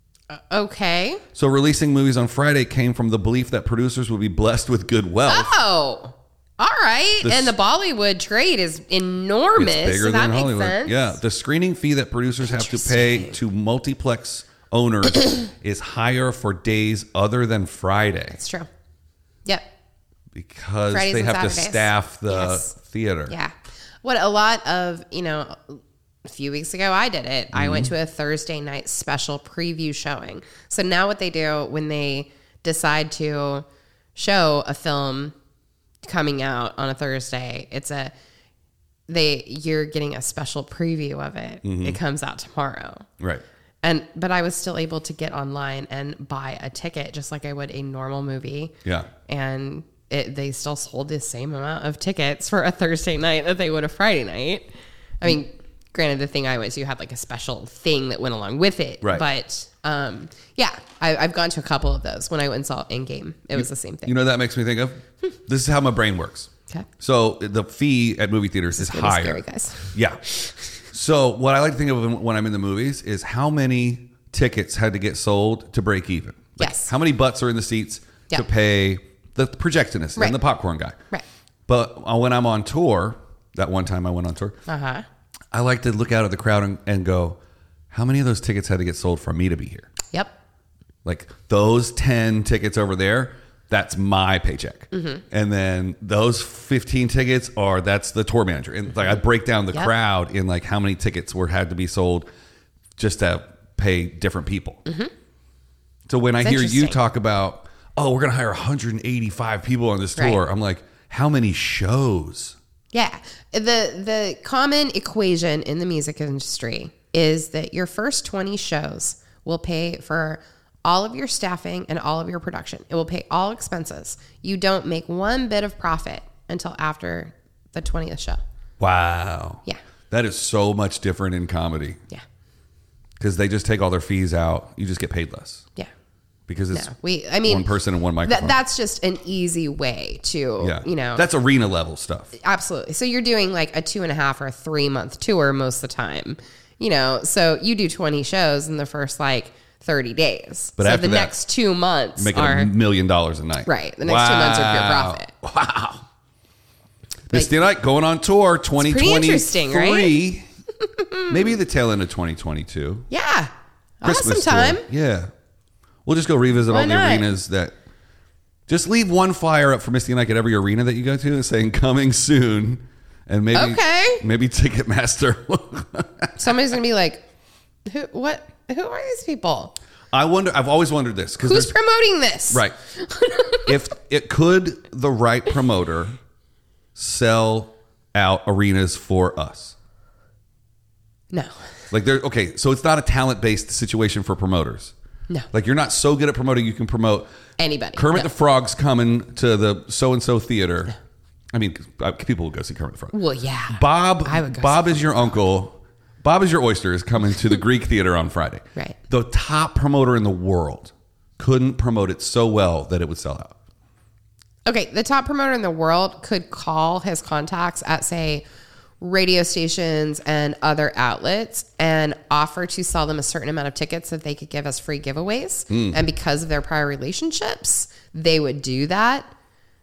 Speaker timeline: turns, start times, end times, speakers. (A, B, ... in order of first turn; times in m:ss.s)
0:00.3-0:01.2 A
0:01.3-0:05.5 B
0:05.3-0:11.2 A
0:07.2-0:07.5 B
0:09.6-0:18.4 B
0:12.4-0:13.4 A
0:18.3-0:18.7 A
0:20.3-0:23.4 B
0:20.9-0:22.7 A
0:23.3-0:33.6 A
0:27.5-0:27.9 B
0:34.2-0:35.3 A
0:36.0-0:38.1 A
0:39.1-0:43.1 A
0:41.6-0:42.0 B
0:43.8-0:48.7 A
0:49.3-0:54.7 A
0:55.2-1:04.2 A
1:03.6-1:21.0 B
1:08.7-1:10.5 A
1:16.6-1:16.9 A
1:21.7-1:24.6 B
1:24.7-1:25.1 A
1:25.5-1:27.4 B
1:27.9-1:29.9 B
1:31.0-1:42.3 B
1:34.9-1:35.2 A
1:43.0-1:44.8 B
1:44.9-1:45.1 A
1:46.1-1:52.6 B
1:46.4-1:47.0 A
1:52.9-2:08.4 A
2:08.8-2:12.0 B
2:13.2-2:15.7 B
2:16.5-2:16.9 B
2:16.7-2:17.7 A
2:17.4-2:18.6 B
2:18.2-2:21.2 A
2:20.6-2:22.4 B
2:22.4-2:32.7 A
2:30.8-2:31.4 B
2:32.2-2:36.0 B
2:33.7-2:35.3 A
2:37.3-2:40.5 B
2:38.8-2:40.2 A
2:40.8-2:41.6 A
2:41.3-2:43.1 B
2:43.1-2:44.9 A
2:44.0-2:45.3 B
2:46.0-2:47.8 B
2:46.7-2:47.3 A
2:48.7-2:56.8 B
2:53.5-2:54.2 A
2:56.4-2:57.2 A
2:57.9-2:59.8 A
3:00.1-3:01.7 B
3:01.4-3:03.8 A
3:02.5-3:02.8 B
3:03.6-3:06.2 B
3:07.0-3:09.8 B
3:11.9-3:14.9 B
3:15.5-3:17.3 B
3:17.6-3:18.3 A
3:18.0-3:21.0 B
3:21.5-3:23.2 B
3:23.1-3:25.3 A
3:23.7-3:33.6 B
3:34.7-3:38.4 A
3:39.0-3:49.3 A
3:45.7-3:46.0 B